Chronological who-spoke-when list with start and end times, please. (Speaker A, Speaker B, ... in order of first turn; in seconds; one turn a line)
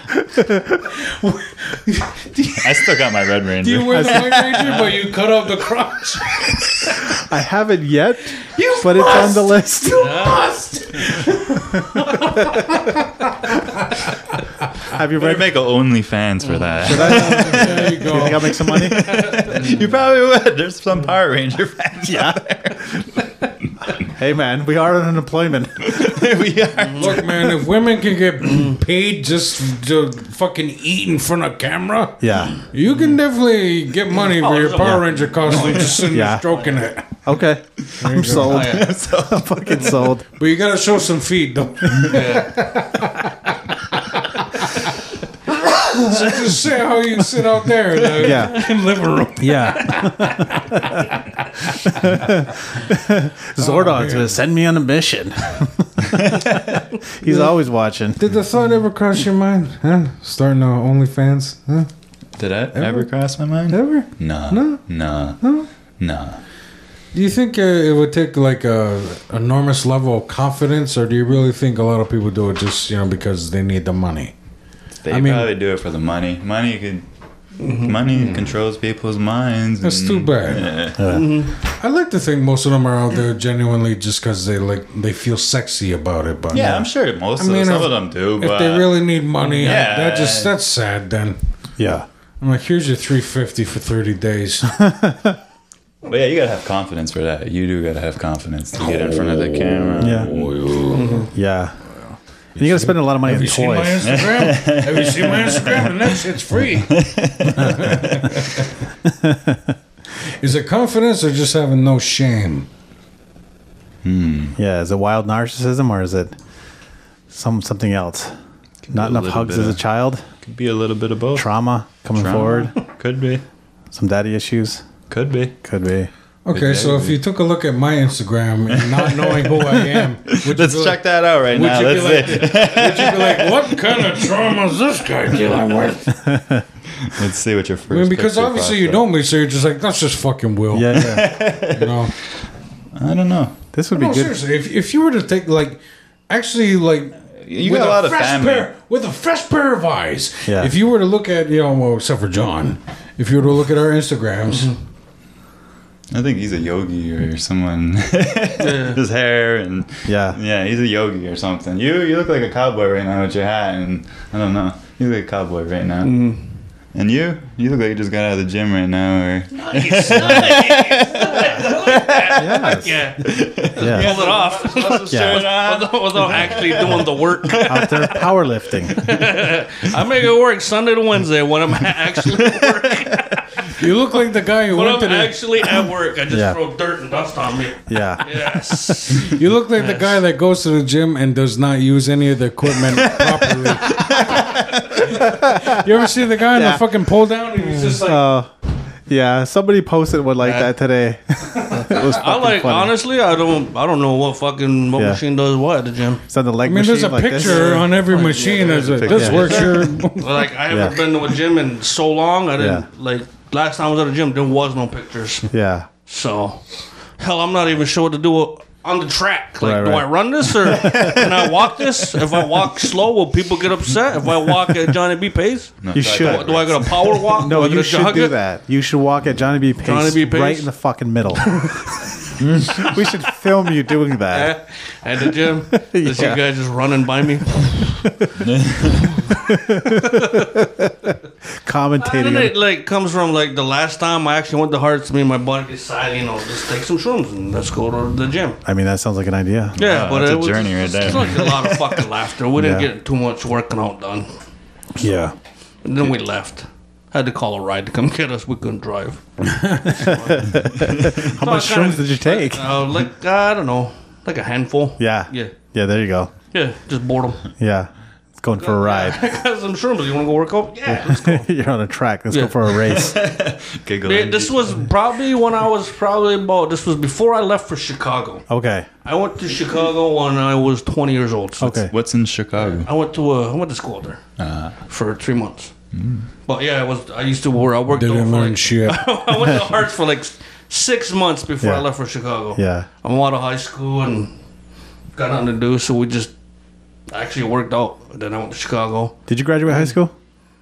Speaker A: 0.3-0.8
Speaker B: 0.8-3.0
Speaker C: 2.6-4.9
Speaker B: 3.6-7.1
Speaker A: 3.9-4.4
Speaker A: 7.1-10.2
Speaker B: 8.4-14.1
Speaker D: 9.9-10.5
Speaker A: 11.7-12.8
Speaker A: 14.9-15.4
Speaker C: 15.1-23.1
Speaker D: 16.4-16.7
Speaker A: 16.8-19.1
Speaker B: 16.9-18.7
Speaker D: 19.0-19.8
Speaker A: 22.0-23.0
Speaker A: 24.0-26.0
Speaker C: 25.8-27.6
Speaker D: 26.8-27.2
Speaker B: 27.0-37.2
Speaker D: 28.4-28.8
Speaker A: 32.2-32.6
Speaker D: 34.1-36.1
Speaker A: 34.8-35.1
Speaker A: 36.1-36.5
Speaker A: 37.2-40.3
Speaker C: 37.9-40.0
Speaker B: 38.0-38.6
Speaker D: 38.5-38.9
Speaker B: 40.4-44.7
Speaker D: 42.0-42.6
Speaker B: 45.6-52.4
Speaker A: 48.2-48.6
Speaker A: 49.4-50.9
Speaker A: 51.9-58.2
Speaker B: 53.6-54.4
Speaker C: 56.1-56.8
Speaker B: 57.3-57.5
Speaker B: 58.1-61.9
Speaker C: 62.4-65.4
Speaker B: 62.7-63.1
Speaker B: 63.7-64.8
Speaker B: 65.4-65.7
Speaker C: 66.0-66.4
Speaker B: 67.1-74.3
Speaker C: 75.0-77.0
Speaker B: 75.1-75.5
Speaker C: 77.6-81.2
Speaker D: 77.6-78.4
Speaker B: 79.8-80.8
Speaker A: 81.0-81.4
Speaker D: 81.1-81.6
Speaker B: 81.6-86.8
Speaker C: 86.5-90.5
Speaker A: 86.5-86.9
Speaker B: 87.4-91.4
Speaker A: 91.8-92.1
Speaker B: 92.4-94.7
Speaker A: 94.7-95.4
Speaker C: 96.0-100.6
Speaker B: 98.8-101.3
Speaker A: 100.0-100.3
Speaker D: 100.9-101.3
Speaker A: 101.3-101.8
Speaker A: 102.6-104.2
Speaker B: 102.6-108.7
Speaker C: 104.0-106.2
Speaker C: 106.7-108.3
Speaker A: 109.1-109.7
Speaker B: 110.4-112.7
Speaker C: 114.0-114.6
Speaker A: 114.6-116.3
Speaker A: 117.3-118.3
Speaker C: 118.8-119.8
Speaker A: 118.9-120.2
Speaker C: 120.4-121.5
Speaker A: 121.3-122.7
Speaker C: 122.2-123.4
Speaker A: 123.9-124.8
Speaker C: 125.1-125.5
Speaker A: 125.6-126.1
Speaker B: 126.5-136.2
Speaker C: 126.5-127.2
Speaker C: 128.7-133.7
Speaker A: 136.2-136.6
Speaker C: 137.0-139.0
Speaker B: 137.9-142.1
Speaker A: 140.7-141.3
Speaker C: 140.9-142.1
Speaker C: 142.9-143.6
Speaker A: 143.7-144.4
Speaker B: 143.9-154.7
Speaker C: 147.4-148.7
Speaker A: 150.4-150.7
Speaker C: 156.1-166.3
Speaker D: 158.6-159.0
Speaker A: 160.1-160.4
Speaker D: 166.0-166.4
Speaker C: 166.9-172.6
Speaker D: 169.5-178.4
Speaker A: 172.3-173.1
Speaker C: 173.2-178.2
Speaker A: 173.8-174.2
Speaker A: 175.1-175.5
Speaker A: 177.6-179.1
Speaker D: 178.9-183.8
Speaker C: 182.2-183.1
Speaker B: 183.7-185.4
Speaker D: 184.7-190.2
Speaker A: 186.3-186.6
Speaker A: 187.9-188.6
Speaker B: 189.2-198.3
Speaker C: 193.0-195.1
Speaker A: 195.2-195.8
Speaker A: 196.5-196.8
Speaker A: 197.7-198.5
Speaker A: 199.1-202.9
Speaker D: 200.4-200.7
Speaker D: 201.7-206.2
Speaker A: 206.3-207.9
Speaker B: 206.7-210.5
Speaker D: 207.4-215.5
Speaker C: 208.9-209.7
Speaker A: 209.1-209.7
Speaker A: 210.7-211.0
Speaker A: 212.6-212.9
Speaker A: 215.5-215.9
Speaker D: 216.1-228.3
Speaker A: 219.6-220.1
Speaker A: 220.8-221.2
Speaker C: 220.8-221.3
Speaker C: 225.8-227.4
Speaker A: 225.9-234.6
Speaker D: 229.8-230.7
Speaker C: 232.4-232.9
Speaker D: 234.3-237.8
Speaker A: 235.8-236.4
Speaker C: 238.4-239.1
Speaker A: 239.3-241.1
Speaker D: 239.9-240.5
Speaker A: 241.6-242.5
Speaker D: 242.0-248.6
Speaker A: 248.7-249.8
Speaker C: 249.8-252.1
Speaker D: 249.8-254.3
Speaker A: 252.6-252.9
Speaker A: 254.9-255.3
Speaker D: 255.8-259.2
Speaker B: 259.4-260.0
Speaker D: 259.8-265.5
Speaker A: 259.9-262.9
Speaker C: 260.8-261.2
Speaker A: 265.0-266.3
Speaker D: 266.5-267.5
Speaker A: 267.6-269.2
Speaker D: 268.6-271.5
Speaker A: 270.9-273.1
Speaker D: 272.3-273.1
Speaker C: 272.9-274.8
Speaker D: 274.0-278.5
Speaker A: 278.5-278.9
Speaker D: 279.1-281.9
Speaker A: 281.6-281.9
Speaker C: 281.9-282.9
Speaker D: 282.6-284.2
Speaker C: 284.4-284.8
Speaker D: 284.9-285.7
Speaker C: 285.9-286.3
Speaker D: 286.4-294.3
Speaker B: 287.9-289.4
Speaker A: 292.6-292.9
Speaker D: 295.1-296.3
Speaker D: 297.1-299.2
Speaker A: 299.3-300.1